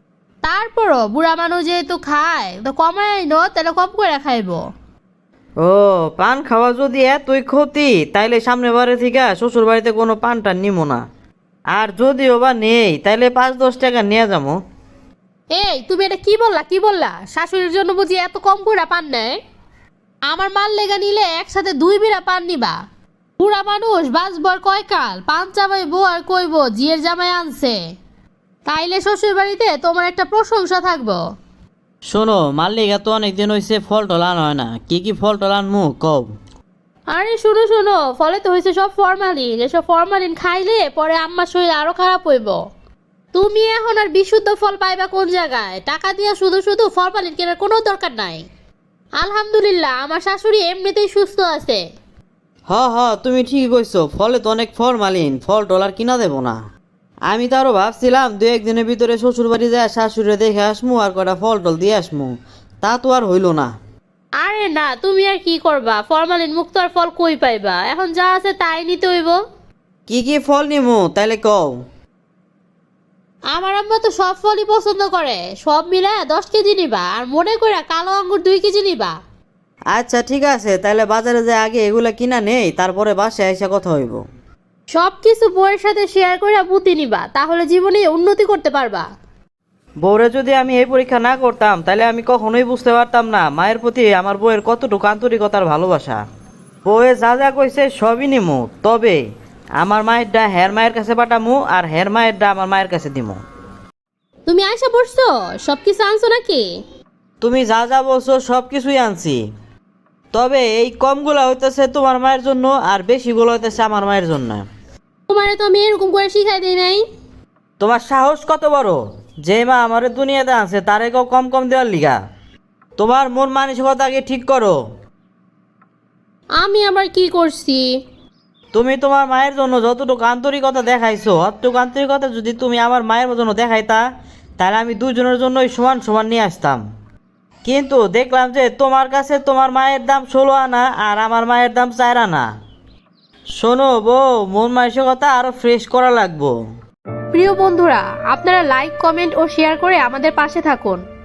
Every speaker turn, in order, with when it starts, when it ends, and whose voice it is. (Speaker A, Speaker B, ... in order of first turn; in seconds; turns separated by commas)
Speaker A: 0.4-4.6, Speaker B: 5.6-11.0, Speaker B: 11.7-14.6, Speaker A: 15.6-19.3, Speaker A: 20.3-22.8, Speaker A: 23.4-27.8, Speaker A: 28.7-31.2, Speaker B: 32.1-36.3, Speaker A: 37.1-42.6, Speaker A: 43.3-48.4, Speaker A: 49.2-51.8, Speaker B: 52.7-56.6, Speaker B: 57.3-63.7, Speaker A: 64.4-69.4, Speaker B: 70.1-71.7, Speaker A: 73.5-79.1, Speaker B: 79.9-84.2, Speaker A: 84.9-89.0, Speaker B: 90.0-96.2, Speaker B: 96.9-99.2, Speaker B: 99.8-103.4, Speaker A: 104.5-106.6, Speaker B: 107.4-109.4, Speaker B: 110.3-114.6, Speaker A: 115.3-117.0, Speaker B: 117.8-122.2, Speaker B: 123.0-124.8, Speaker A: 126.6-127.8, Speaker B: 128.7-134.0, Speaker B: 134.6-136.8, Speaker B: 137.6-142.5, Speaker B: 143.6-146.5, Speaker A: 147.3-151.0